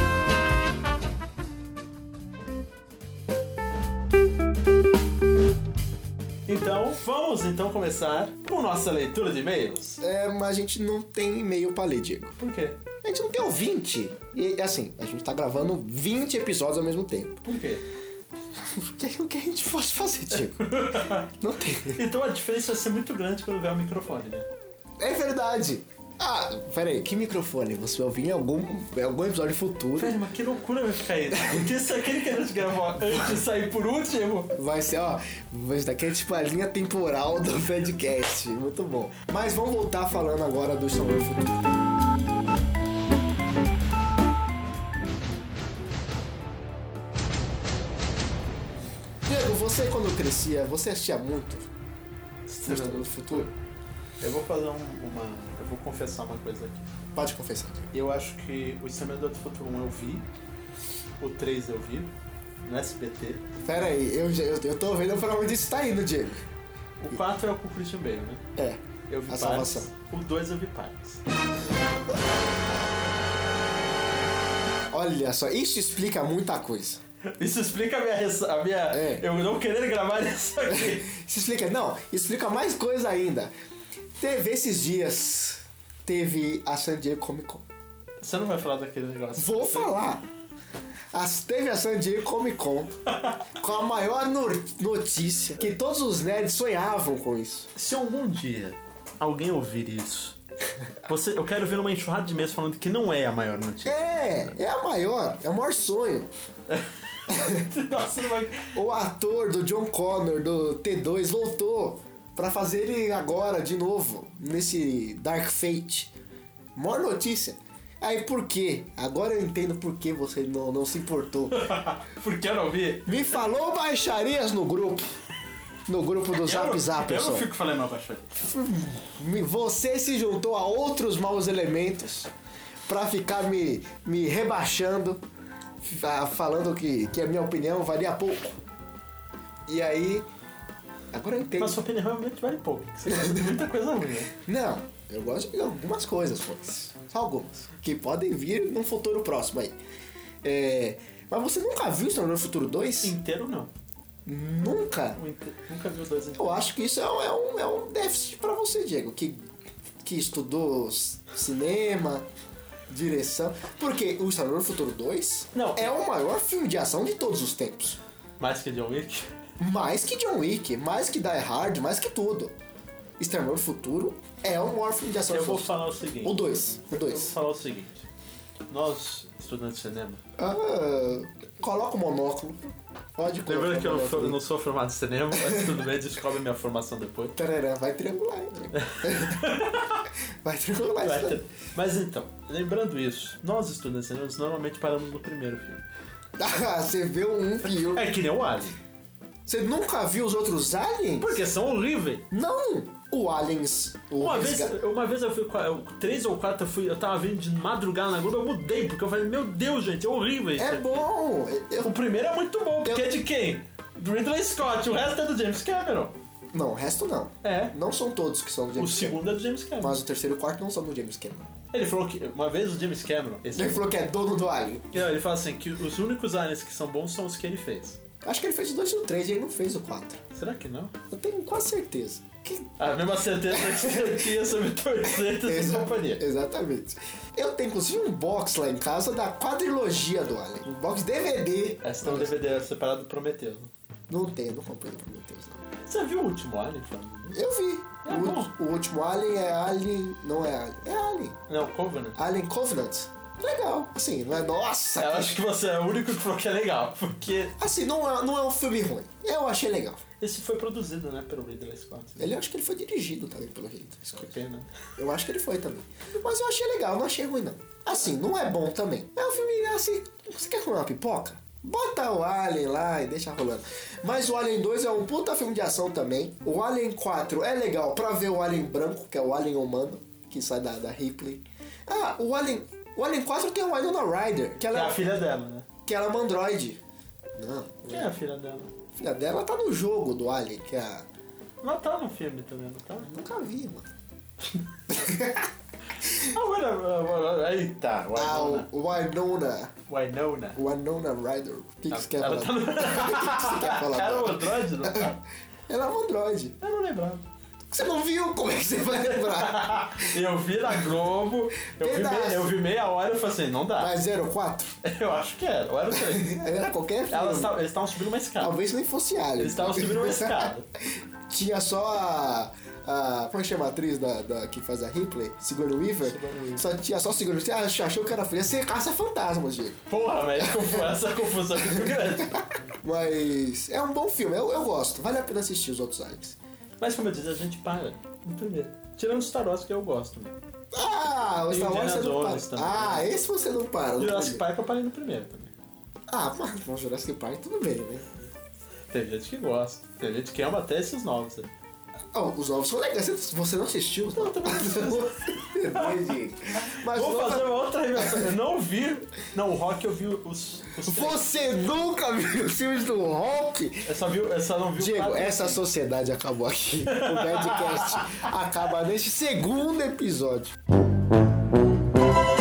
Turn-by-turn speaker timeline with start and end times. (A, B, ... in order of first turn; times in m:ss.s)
0:06.5-0:10.0 A
0:10.0-0:12.3 B
0:12.4-0:12.8 A
0:13.0-0:17.4 B
0:17.4-0:17.8 A
0:18.6-0:22.0 B
0:20.4-0:21.3 A
0:21.9-0:24.5 A
0:25.0-0:30.2 B
0:30.0-0:34.5 A
0:31.3-0:31.7 B
0:34.5-0:41.8 B
0:49.2-0:51.7 B
0:52.5-0:53.5 A
0:52.6-0:53.5 B
0:54.2-0:56.9 A
0:57.1-0:57.9 B
0:57.9-1:00.2 A
1:01.2-1:02.1 A
1:02.6-1:03.4 A
1:03.6-1:06.4 B
1:07.0-1:08.4 A
1:08.6-1:09.9 B
1:09.1-1:11.2 A
1:14.9-1:17.0 B
1:17.4-1:21.1 A
1:18.9-1:19.2 B
1:20.7-1:23.5 B
1:24.2-1:27.6 B
1:28.2-1:30.1 A
1:29.3-1:30.2 B
1:31.1-1:33.0 B
1:33.6-1:37.7 B
1:37.7-1:40.4 A
1:41.0-1:44.0 A
1:43.8-1:46.3 B
1:46.7-1:48.8 A
1:47.3-1:47.7 B
1:48.7-1:56.1 B
1:56.8-2:01.7 B
2:01.5-2:03.3 A
2:03.0-2:05.1 B
2:05.9-2:07.5 B
2:06.3-2:08.4 A
2:08.4-2:12.3 B
2:12.9-2:15.2 B
2:15.8-2:18.6 B
2:19.7-2:20.3 B
2:21.1-2:21.8 B
2:21.6-2:24.3 A
2:23.1-2:23.5 B
2:24.4-2:29.8 B
2:30.4-2:33.1 B
2:33.0-2:33.7 A
2:34.2-2:35.2 B
2:35.2-2:36.6 A
2:36.4-2:39.4 B
2:40.0-2:42.3 B
2:42.9-2:48.0 B
2:45.5-2:45.9 A
2:48.4-2:49.3 A
2:49.6-2:52.5 B
2:53.2-2:57.3 B
2:55.3-2:58.0 A
2:58.7-3:00.2 A
3:00.4-3:04.4 B
3:03.4-3:07.4 A
3:05.4-3:05.6 B
3:07.4-3:09.4 B
3:08.7-3:10.0 A
3:10.4-3:11.4 B
3:11.0-3:15.8 A
3:16.4-3:18.1 B
3:17.8-3:18.8 A
3:19.4-3:21.4 B
3:21.2-3:22.2 A
3:22.3-3:24.8 B
3:24.2-3:31.0 A
3:30.6-3:31.9 B
3:31.8-3:36.1 A
3:36.5-3:39.2 B
3:37.4-3:37.7 A
3:38.7-3:40.0 A
3:39.8-3:41.5 B
3:41.7-3:43.9 A
3:43.5-3:45.0 B
3:44.9-3:48.0 A
3:48.2-3:50.2 B
3:50.3-3:50.9 A
3:51.1-3:52.7 B
3:52.8-3:56.2 A
3:53.5-3:54.3 B
3:55.2-4:02.3 B
4:01.8-4:03.7 A
4:04.1-4:05.6 B
4:05.8-4:07.4 A
4:07.3-4:11.4 B
4:08.0-4:08.5 A
4:11.5-4:12.2 A
4:12.2-4:15.4 B
4:15.0-4:17.6 A
4:17.6-4:20.0 B
4:20.2-4:22.3 A
4:22.2-4:24.3 B
4:24.2-4:24.7 A
4:25.0-4:45.0 B
4:44.7-4:45.7 A
4:45.8-4:46.8 B
4:47.4-4:48.1 B
4:47.9-4:48.7 A
4:48.9-4:51.1 B
4:51.6-4:53.1 A
4:53.0-4:53.9 B
4:54.9-4:55.5 B
4:56.1-4:58.7 A
4:58.1-4:59.7 B
4:59.9-5:00.6 A
5:00.6-5:05.1 B
5:01.9-5:05.2 A
5:05.7-5:06.6 B
5:06.6-5:07.2 A
5:07.7-5:10.1 B
5:08.8-5:13.9 A
5:11.8-5:12.5 B
5:13.8-5:14.8 B
5:14.8-5:16.4 A
5:15.9-5:17.6 B
5:17.1-5:18.5 A
5:18.4-5:20.5 B
5:19.4-5:20.7 A
5:21.3-5:29.8 B
5:26.0-5:26.7 A
5:29.9-5:32.4 A
5:30.4-5:30.8 B
5:31.6-5:36.4 B
5:36.8-5:40.4 A
5:40.7-5:44.4 B
5:41.5-5:43.1 A
5:44.0-5:45.5 A
5:46.1-5:48.1 B
5:48.9-5:51.5 A
5:52.1-5:58.3 B
5:54.1-5:56.0 A
5:56.6-6:01.4 A
6:00.8-6:03.9 B
6:03.8-6:05.6 A
6:04.8-6:10.6 B
6:06.9-6:08.2 A